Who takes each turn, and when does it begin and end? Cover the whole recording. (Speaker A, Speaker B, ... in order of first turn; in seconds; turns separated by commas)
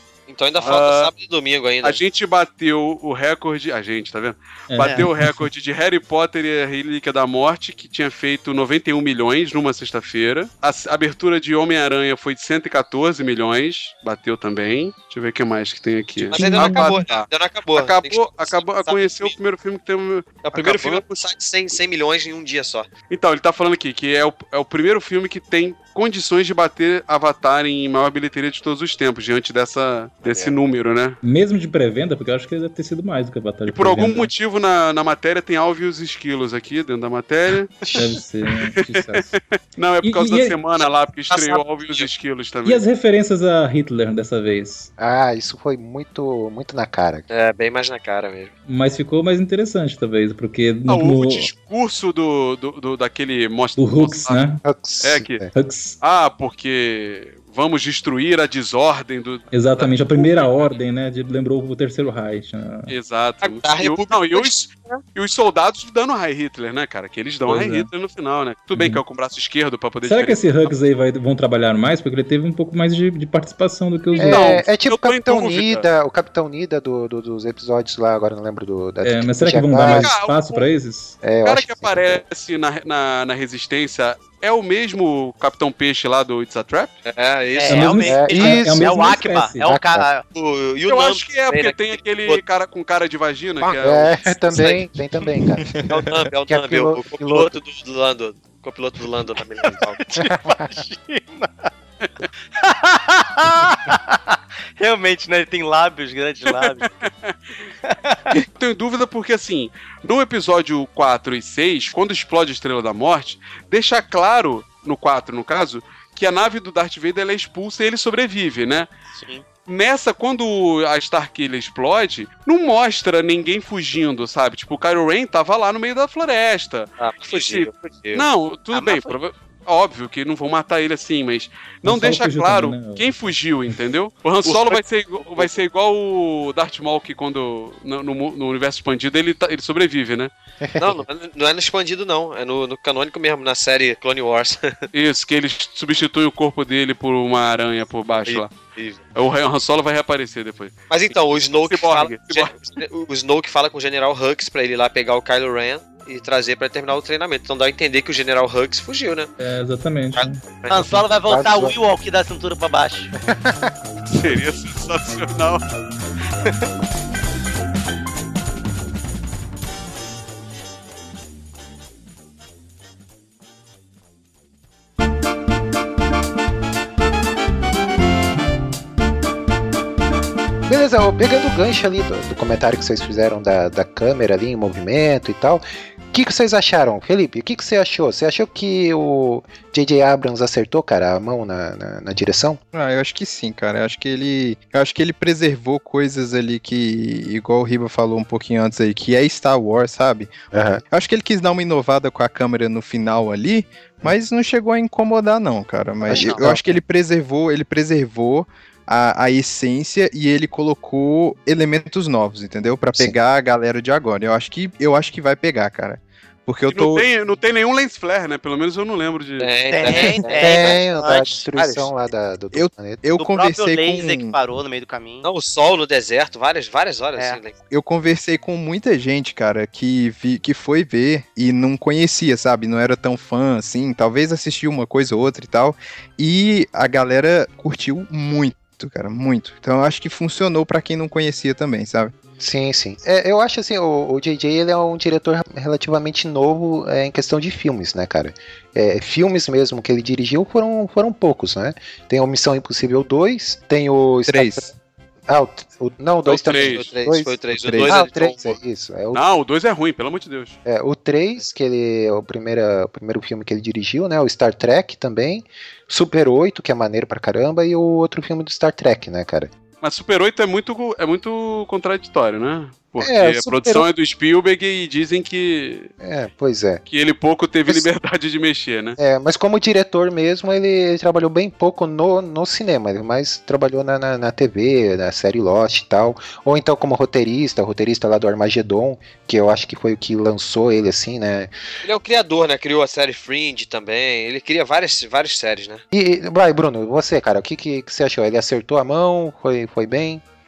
Speaker A: 0.3-2.0, Speaker B: 0.6-1.1, Speaker B: 1.8-21.2, Speaker C: 4.7-5.5, Speaker D: 16.3-17.0, Speaker A: 16.3-19.3, Speaker A: 20.4-22.9, Speaker B: 23.1-31.2, Speaker A: 30.2-30.6, Speaker C: 31.2-34.3, Speaker B: 33.7-37.9, Speaker A: 37.8-38.2, Speaker C: 37.9-39.3, Speaker B: 38.8-42.8, Speaker C: 40.0-40.6, Speaker A: 40.8-42.1, Speaker C: 42.6-44.9, Speaker E: 45.0-47.3, Speaker A: 47.3-48.5, Speaker C: 48.7-51.5, Speaker B: 50.9-54.4, Speaker C: 53.8-54.6, Speaker E: 54.6-55.5, Speaker B: 55.0-55.4, Speaker C: 55.5-56.0, Speaker B: 56.0-60.7, Speaker C: 59.5-62.9, Speaker B: 62.9-70.7, Speaker A: 63.4-65.0, Speaker C: 67.5-67.9, Speaker C: 68.7-69.0, Speaker C: 70.0-74.6, Speaker E: 74.2-80.1, Speaker B: 74.2-75.8, Speaker C: 79.0-81.2, Speaker B: 79.8-80.7, Speaker E: 81.2-82.2, Speaker B: 81.4-87.0, Speaker A: 87.0-88.3, Speaker F: 87.5-90.2, Speaker C: 87.7-89.7, Speaker E: 88.1-88.8, Speaker E: 89.6-90.1, Speaker A: 90.3-92.4, Speaker B: 90.9-94.4, Speaker E: 93.7-95.7, Speaker F: 94.5-94.8, Speaker D: 95.6-96.0, Speaker A: 95.9-100.0, Speaker E: 96.5-97.6, Speaker F: 100.0-101.7, Speaker E: 100.4-100.7, Speaker F: 102.6-106.9, Speaker B: 106.5-107.3, Speaker B: 108.4-118.9, Speaker B: 119.7-140.3, Speaker A: 127.0-128.3, Speaker F: 128.7-129.2, Speaker C: 131.8-133.2, Speaker A: 134.4-134.8, Speaker E: 140.6-141.0, Speaker A: 140.8-144.8, Speaker B: 144.9-148.6, Speaker A: 148.2-149.0, Speaker B: 149.2-152.7, Speaker A: 150.9-159.3, Speaker C: 159.4-161.0, Speaker A: 160.2-161.0, Speaker F: 160.7-163.1, Speaker E: 161.3-161.8, Speaker E: 163.2-163.6, Speaker B: 164.1-165.6, Speaker E: 180.7-192.6, Speaker D: 192.7-200.3, Speaker E: 200.5-200.8, Speaker D: 200.9-217.1, Speaker F: 206.1-206.4, Speaker E: 206.1-206.8, Speaker B: 216.7-219.5, Speaker A: 219.4-220.8, Speaker F: 219.7-221.7, Speaker E: 219.9-223.0, Speaker D: 222.5-224.4, Speaker F: 223.2-225.2, Speaker A: 225.2-227.6, Speaker D: 227.7-242.1, Speaker E: 242.4-254.7, Speaker D: 254.3-254.7, Speaker E: 255.3-259.2, Speaker B: 256.3-256.9, Speaker A: 256.5-258.6, Speaker D: 257.5-258.0, Speaker B: 259.1-260.6, Speaker E: 260.7-269.5, Speaker B: 269.8-275.9, Speaker E: 273.0-273.9, Speaker E: 276.0-276.8, Speaker B: 276.9-279.0, Speaker E: 279.0-291.5, Speaker A: 291.8-295.8, Speaker E: 295.9-300.2